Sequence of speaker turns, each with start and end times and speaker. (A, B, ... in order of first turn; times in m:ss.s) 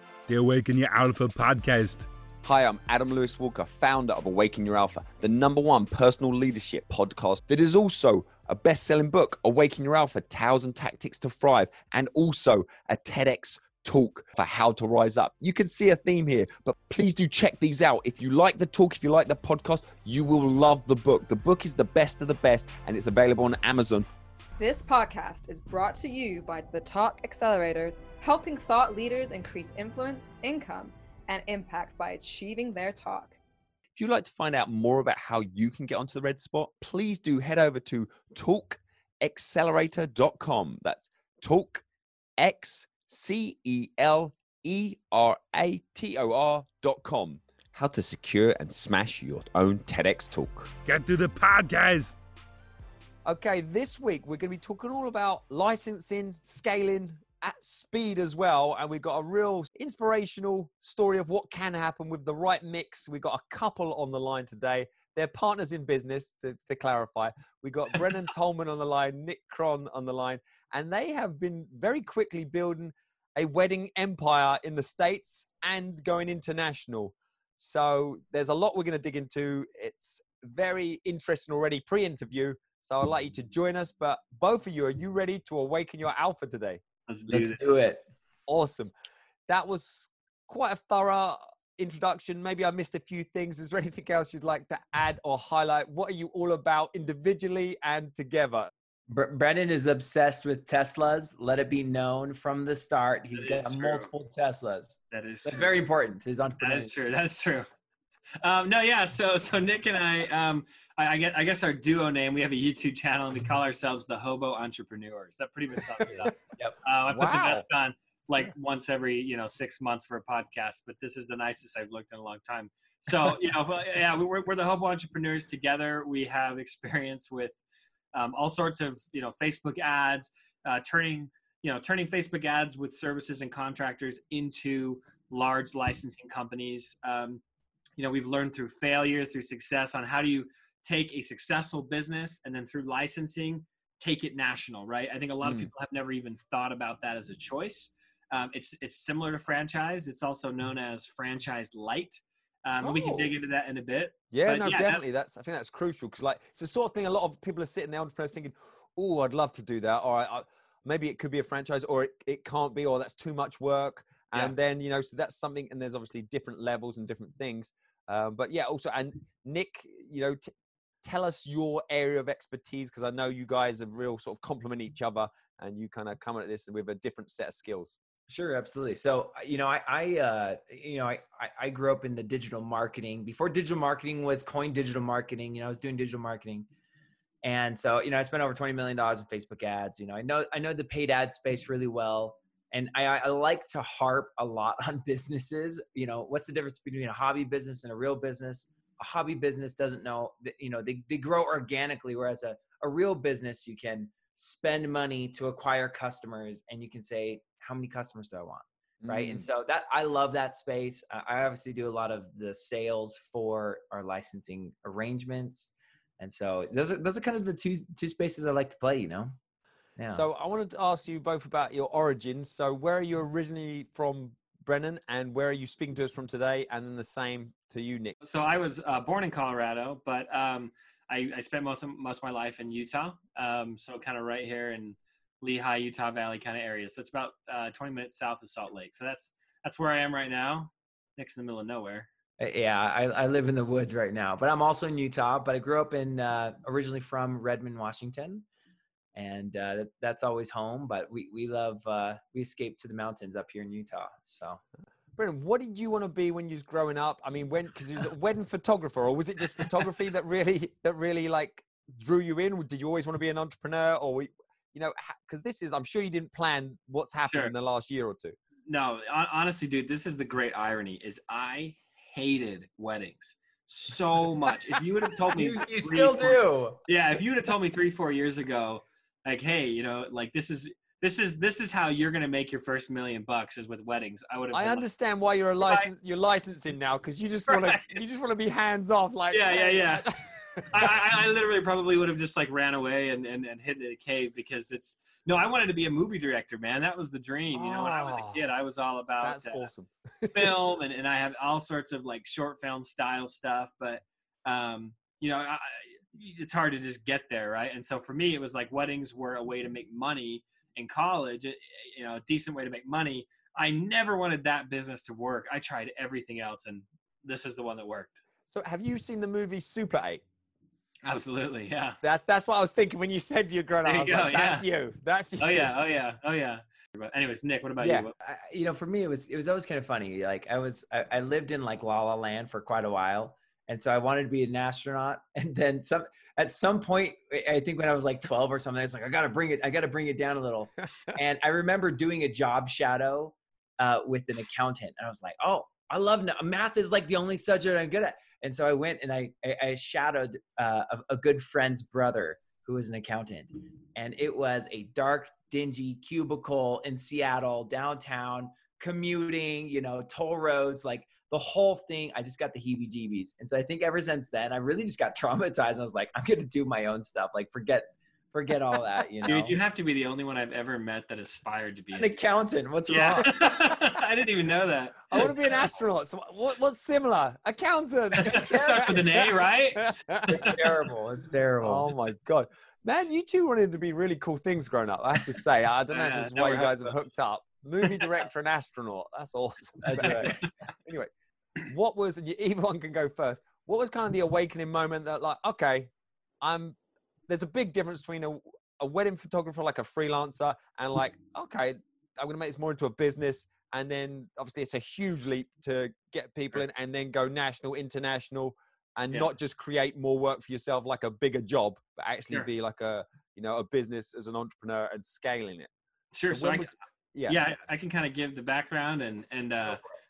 0:00.3-0:02.1 A
0:02.4-0:24.1 B
0:24.6-0:33.4 C
0:34.0-0:41.8 B
0:42.4-0:50.7 B
0:50.8-0:52.2 A
0:53.2-1:26.8 B
1:27.1-1:27.8 D
1:27.3-1:28.0 E
1:28.5-1:28.9 B
1:29.5-1:38.7 B
1:39.1-1:46.9 E
1:43.3-1:44.1 D
1:45.1-1:45.8 D
1:46.6-1:47.6 D
1:48.4-2:07.6 D
1:57.1-1:57.6 B
2:08.1-2:17.4 D
2:18.0-2:35.0 D
2:25.4-2:25.7 B
2:32.8-2:33.3 B
2:34.3-2:50.5 B
2:51.0-2:58.0 B
2:58.3-3:06.7 E
3:07.4-3:39.3 E
3:29.0-3:29.4 B
3:40.0-3:40.2 E
3:40.1-3:48.1 B
3:48.2-4:02.1 D
4:02.4-4:08.4 E
4:09.1-4:14.6 E
4:15.2-4:28.4 B
4:28.7-4:44.8 D
4:35.3-4:36.8 E
4:44.5-4:50.9 B
4:45.6-4:45.9 D
4:47.5-4:48.0 D
4:49.3-4:50.1 D
4:50.6-4:59.7 D
4:57.6-4:58.4 B
4:59.2-5:00.6 B
5:00.3-5:18.2 D
5:18.5-5:20.2 B
5:21.0-5:22.0 D
5:22.0-5:25.7 B
5:23.8-5:24.6 D
5:25.4-5:28.1 D
5:27.8-5:28.0 B
5:28.2-6:09.6 E
6:09.2-6:12.1 D
6:11.9-6:13.7 E
6:12.9-6:15.6 D
6:15.1-6:20.6 B
6:18.2-6:19.9 D
6:20.3-6:21.9 E
6:21.6-6:31.1 B
6:25.9-6:26.9 D
6:29.8-6:30.4 E
6:30.0-6:30.5 D
6:31.6-6:35.9 B
6:36.4-6:36.8 B
6:37.3-6:55.7 B
6:56.1-6:56.7 D
6:56.3-6:57.4 B
6:57.3-6:59.8 D